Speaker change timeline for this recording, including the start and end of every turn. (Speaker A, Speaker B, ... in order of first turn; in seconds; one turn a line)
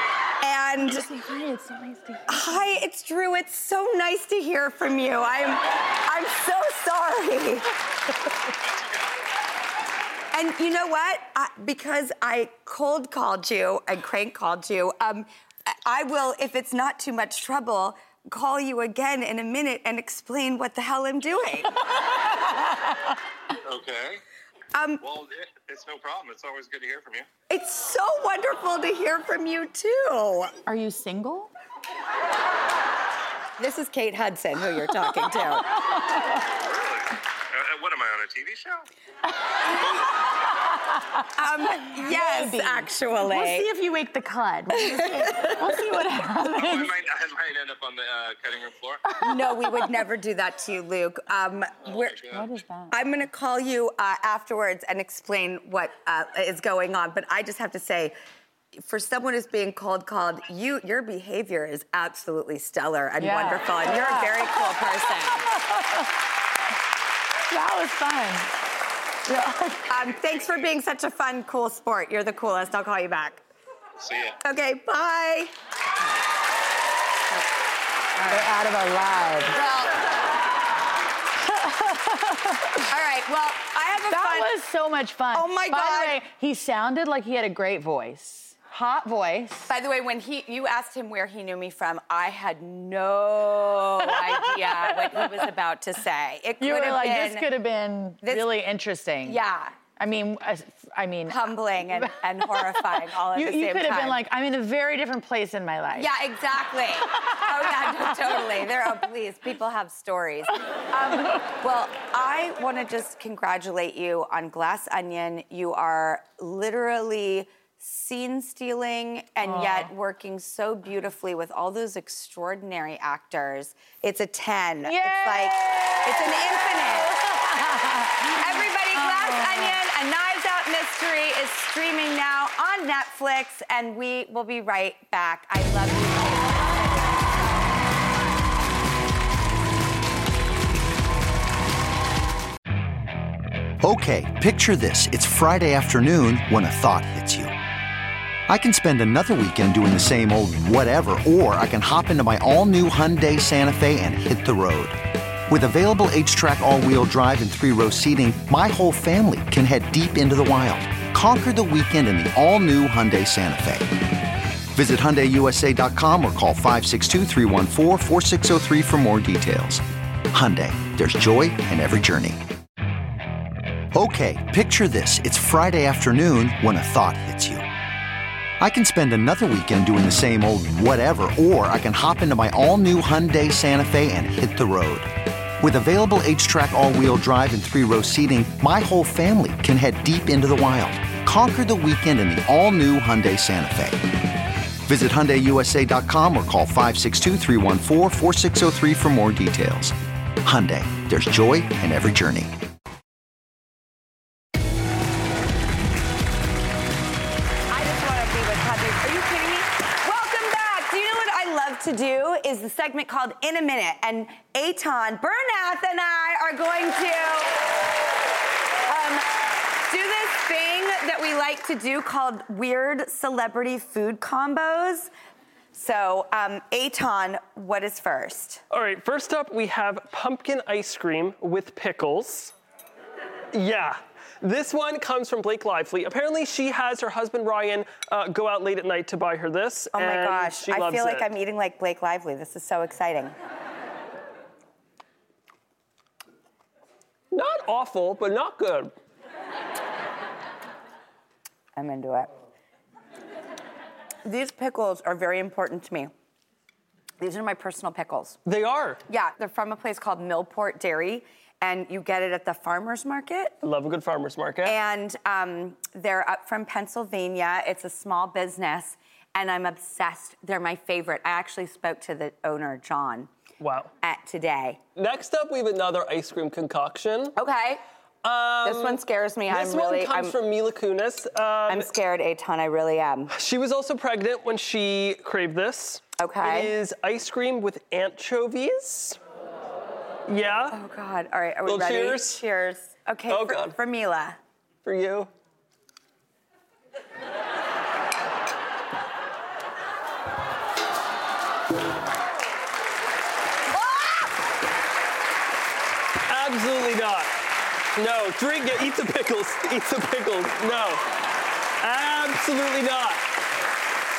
Speaker A: 0.4-1.0
Speaker B: 0.8-2.7
Speaker A: 2.3-7.7
Speaker C: 8.6-9.1
Speaker A: 10.3-21.7
Speaker C: 23.6-24.2
Speaker A: 24.7-25.0
Speaker C: 25.0-27.3
Speaker A: 27.5-30.5
Speaker B: 30.7-31.5
Speaker A: 33.6-35.6
Speaker C: 36.5-38.8
Speaker A: 41.4-43.7
Speaker B: 41.7-47.0
Speaker C: 46.5-49.0
Speaker B: 49.2-49.6
Speaker A: 49.2-52.3
Speaker C: 51.9-52.4
Speaker B: 52.3-52.9
Speaker A: 52.9-58.1
Speaker A: 58.8-65.4
Speaker B: 63.2-66.1
Speaker B: 67.5-68.5
Speaker B: 69.2-69.9
Speaker A: 69.9-73.4
Speaker C: 70.4-70.6
Speaker C: 74.0-74.3
Speaker A: 74.4-75.5
Speaker A: 78.2-78.5
Speaker B: 78.3-79.6
Speaker A: 79.5-79.9
Speaker B: 81.4-82.8
Speaker A: 82.9-84.5
Speaker B: 84.0-89.7
Speaker A: 85.3-86.2
Speaker A: 89.7-97.5
Speaker B: 94.3-95.2
Speaker B: 96.6-99.4
Speaker A: 98.2-98.5
Speaker A: 99.2-99.8
Speaker B: 100.0-106.1
Speaker A: 101.3-104.2
Speaker A: 106.0-127.2
Speaker B: 107.2-108.4
Speaker B: 119.4-119.9
Speaker B: 124.8-129.8
Speaker A: 128.4-137.4
Speaker D: 143.8-147.5
Speaker D: 148.5-154.9
Speaker D: 155.5-163.9
Speaker D: 164.7-172.4
Speaker D: 173.9-177.6
Speaker D: 178.6-194.0
Speaker D: 194.8-202.5
Speaker A: 207.7-217.5
Speaker A: 218.9-219.2
Speaker A: 219.9-225.1
Speaker A: 225.7-228.6
Speaker E: 228.7-232.5
Speaker E: 233.5-241.3
Speaker A: 239.9-243.3
Speaker E: 247.3-248.9
Speaker A: 251.8-252.3
Speaker A: 254.2-256.1
Speaker A: 257.2-258.4
Speaker E: 258.4-259.0
Speaker A: 259.1-263.6
Speaker E: 263.6-264.8
Speaker A: 264.6-273.3
Speaker E: 273.6-273.9
Speaker A: 274.0-274.8
Speaker E: 275.0-277.3
Speaker A: 277.4-277.8
Speaker E: 278.2-281.9
Speaker A: 278.6-280.4
Speaker A: 281.7-283.3
Speaker E: 283.3-289.2
Speaker A: 286.2-286.7
Speaker E: 290.3-290.8
Speaker A: 290.7-294.4
Speaker E: 291.6-292.4
Speaker E: 293.3-293.8
Speaker E: 294.8-295.3
Speaker A: 303.9-304.2
Speaker E: 306.3-307.3
Speaker E: 307.9-311.0
Speaker E: 311.8-313.2